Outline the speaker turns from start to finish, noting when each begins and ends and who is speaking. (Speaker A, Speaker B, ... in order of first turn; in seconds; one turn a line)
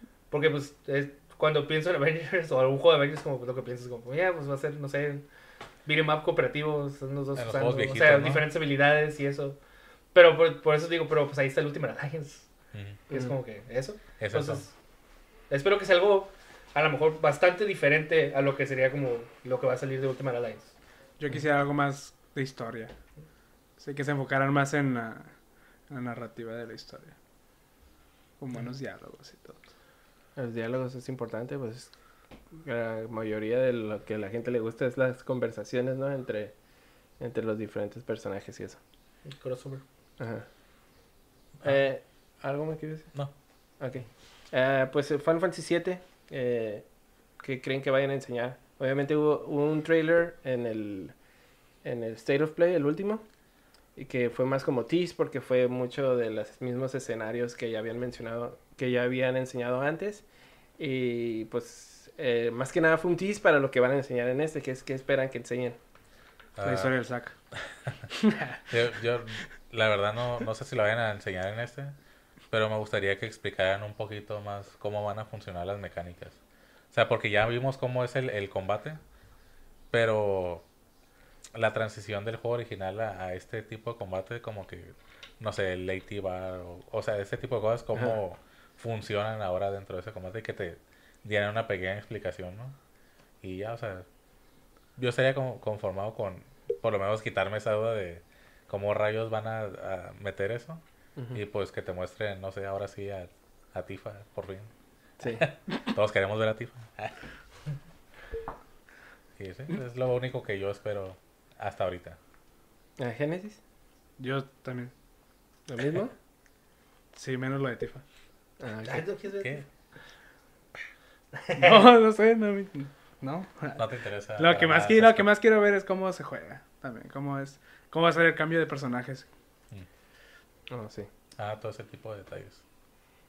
Speaker A: 0.3-5.2
Speaker A: 5.8-9.6
Speaker B: 7.3-8.4
Speaker A: 10.1-12.5
Speaker B: 12.7-13.0
Speaker A: 13.1-14.7
Speaker B: 14.2-14.6
Speaker A: 15.5-20.7
Speaker C: 21.2-23.0
Speaker C: 23.8-25.4
Speaker C: 25.9-27.1
Speaker C: 28.4-29.6
Speaker D: 30.4-31.9
Speaker D: 32.5-36.5
Speaker D: 37.2-38.8
Speaker A: 39.3-39.8
Speaker D: 40.2-40.5
Speaker D: 41.6-43.1
Speaker D: 43.8-46.9
Speaker D: 47.4-51.1
Speaker D: 51.8-53.2
Speaker D: 54.0-60.2
Speaker D: 60.8-65.8
Speaker B: 66.6-66.9
Speaker C: 66.6-67.3
Speaker B: 67.5-68.0
Speaker C: 68.3-68.6
Speaker B: 68.7-72.0
Speaker B: 72.5-76.4
Speaker B: 76.9-79.0
Speaker B: 79.9-80.7
Speaker B: 81.5-92.8
Speaker B: 93.4-94.1
Speaker B: 95.0-104.7
Speaker D: 105.2-105.5
Speaker B: 105.3-107.2
Speaker B: 109.4-112.2
Speaker D: 113.0-113.6
Speaker C: 114.2-114.9
Speaker D: 115.7-116.1
Speaker C: 117.1-118.0
Speaker D: 118.6-119.0
Speaker A: 118.8-119.6
Speaker A: 121.4-121.8
Speaker C: 121.6-123.8
Speaker B: 123.8-125.3
Speaker C: 124.4-129.3
Speaker D: 130.7-131.1
Speaker B: 131.4-132.6